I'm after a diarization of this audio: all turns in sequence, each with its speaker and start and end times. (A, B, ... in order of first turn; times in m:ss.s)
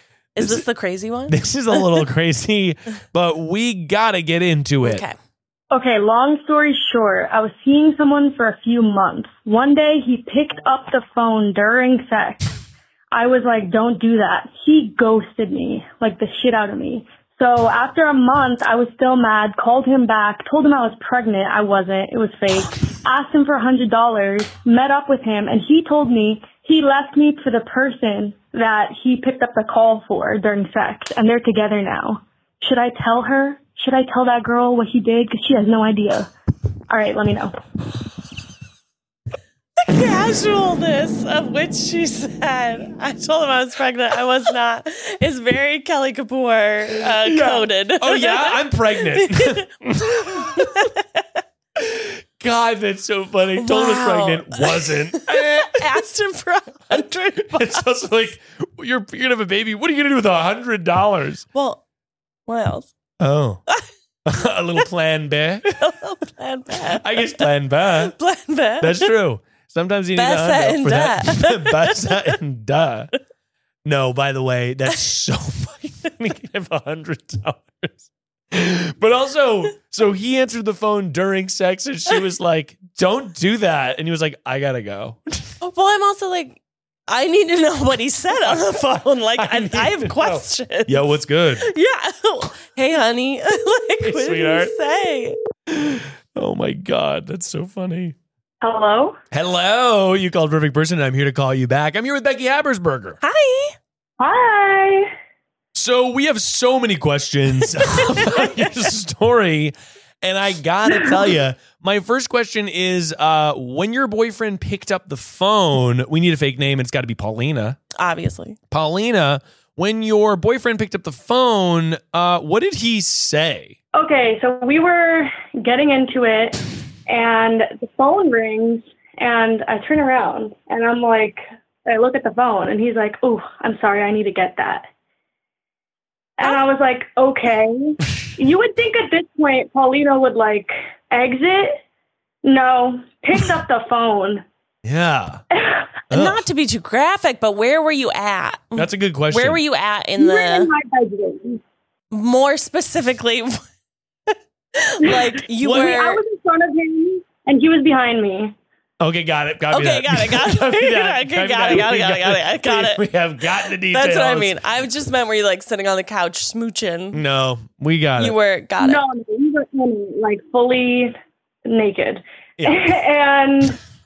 0:00.4-0:02.0 A
0:01.3-0:05.0 B
0:04.8-0:05.1 A
0:05.7-0:12.5 C
0:13.1-0:36.3 C
0:36.9-0:37.5 C
0:39.8-0:49.6 A
0:47.0-0:50.9 B
0:50.2-0:51.4 A
0:51.8-0:56.0 B
0:53.6-0:57.8 A
0:56.9-1:01.4 B
1:01.5-1:01.8 A
1:02.5-1:02.9 A
1:03.2-1:03.6 B
1:04.2-1:05.8 B
1:05.8-1:09.1 A
1:06.9-1:08.1 B
1:08.8-1:13.1 B
1:10.2-1:12.3 A
1:13.8-1:25.5 B
1:25.6-1:31.1 A
1:29.4-1:31.6 B
1:31.6-1:35.4 A
1:34.0-1:34.7 B
1:35.7-1:38.2 B
1:38.6-1:39.2 C
1:39.3-1:43.2 B
1:43.2-1:43.8 A
1:44.2-1:45.1 C
1:45.7-1:57.8 B
1:47.8-1:48.6 A
1:58.0-1:58.6 A
1:58.7-2:03.8 B
2:03.9-2:14.9 C
2:16.4-2:21.8 C
2:22.4-2:24.4 C
2:24.8-2:25.4 B
2:25.5-2:25.9 C
2:26.1-2:26.4 B
2:26.1-2:30.7 A
2:28.8-2:29.6 B
2:30.2-2:31.6 C
2:32.1-2:33.6 A
2:34.3-2:36.2 A
2:35.6-2:36.0 B
2:35.6-2:38.5 C
2:39.0-2:44.6 B
2:39.7-2:43.0 A
2:43.9-2:47.2 A
2:47.1-2:48.4 B
2:48.2-2:49.0 A
2:48.8-2:53.8 C
2:52.6-2:53.0 B